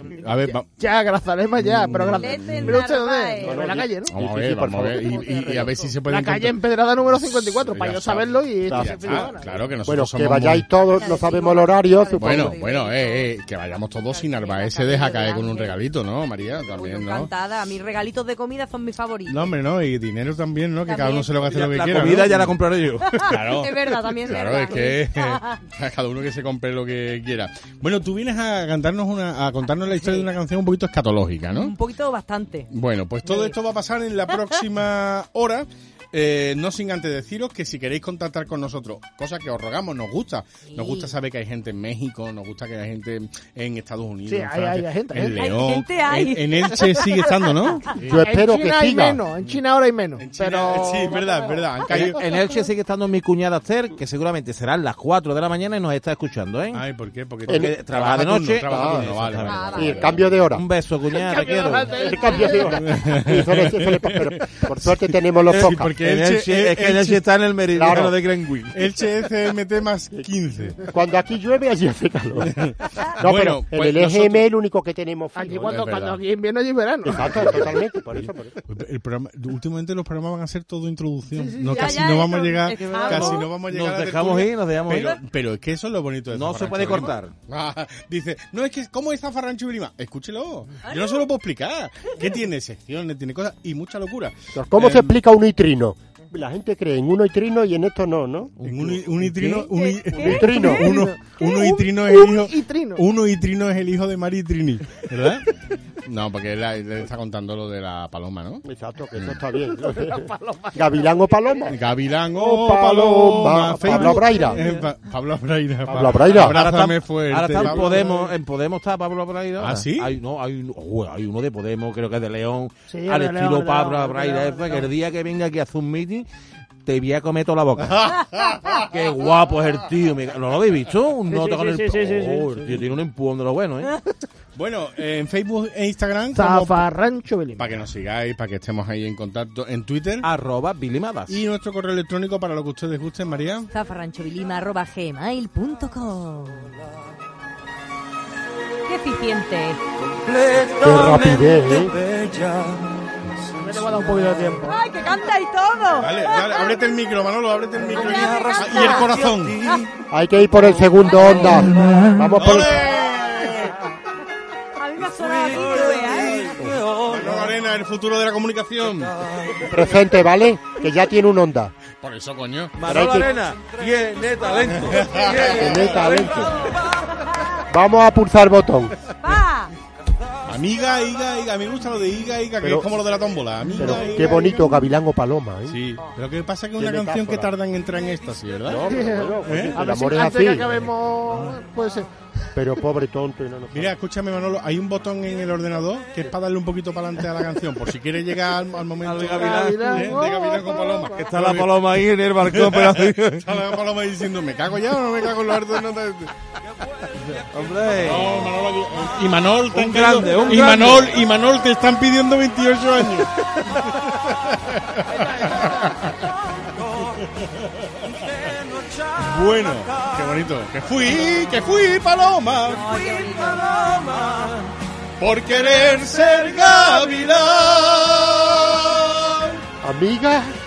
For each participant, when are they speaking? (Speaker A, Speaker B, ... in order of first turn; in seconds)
Speaker A: 0.1-0.7, 1.6-2.8, 4.1-6.6, 7.1-10.7, 12.2-17.3, 19.3-22.6, 23.1-31.7, 32.7-48.2, 50.2-52.2, 56.7-60.4, 62.8-67.2, 68.7-70.8, 72.4-74.5, 75.6-76.2, 77.2-77.8, 78.7-95.2, 98.6-105.5, 106.0-108.6, 111.7-118.1, 119.6-120.2, 127.8-128.9, 134.6-136.9, 137.6-140.3, 141.3-143.7, 156.0-159.6, 162.4-163.8, 166.9-169.2, 172.0-172.8, 174.7-176.3, 180.5-184.8, 185.7-188.9, 189.4-189.8, 193.7-201.8, 202.4-206.3, 207.9-216.3, 217.0-218.3, 219.2-222.9, 225.2-229.6
Speaker B: 0.5-4.1, 6.1-9.6, 44.3-45.4, 48.1-51.5, 61.1-62.8, 75.4-77.7, 81.3-81.9, 100.2-103.0, 109.7-111.7, 117.6-118.3, 122.9-124.9, 131.3-132.8, 136.3-137.8, 153.6-154.8, 188.9-192.5, 199.3-201.2
Speaker C: 2.2-3.7, 5.3-5.9, 10.9-15.8, 16.7-19.5, 20.9-21.4, 23.1-25.6, 31.5-32.7, 33.2-33.5, 40.7-41.1, 45.4-47.9, 59.5-60.0, 81.7-83.5, 90.8-91.2, 99.7-100.3, 143.7-146.8, 148.9-149.8, 154.7-156.8, 157.9-159.2, 161.1-161.6, 164.8-166.6, 179.2-179.7, 222.8-224.0
Speaker D: 3.4-5.7, 8.7-12.6, 48.0-49.2, 57.5-57.8, 58.6-59.1, 59.7-60.6, 62.0-65.9, 67.7-68.2, 70.8-75.8, 77.0-78.6, 94.5-98.5, 100.2-100.9, 108.6-111.8, 112.3-114.6, 115.9-116.6, 150.8-152.0, 160.1-162.8, 169.7-171.7, 172.8-173.3, 175.4-176.5, 177.7-178.9, 182.6-182.9, 183.8-185.8, 186.8-187.5, 188.7-190.7, 192.6-193.9, 229.8-230.6
Speaker E: 21.5-23.2, 51.9-56.8, 57.5-59.8, 60.5-62.1, 65.5-68.8, 82.9-85.2, 86.3-87.3, 98.6-99.7, 116.0-126.3, 126.9-128.1, 128.8-133.9, 140.2-141.4, 150.3-150.9, 152.2-152.6, 165.5-166.1, 172.8-176.5, 199.0-200.1, 201.2-203.5, 207.2-208.5, 209.7-211.1, 223.2-224.7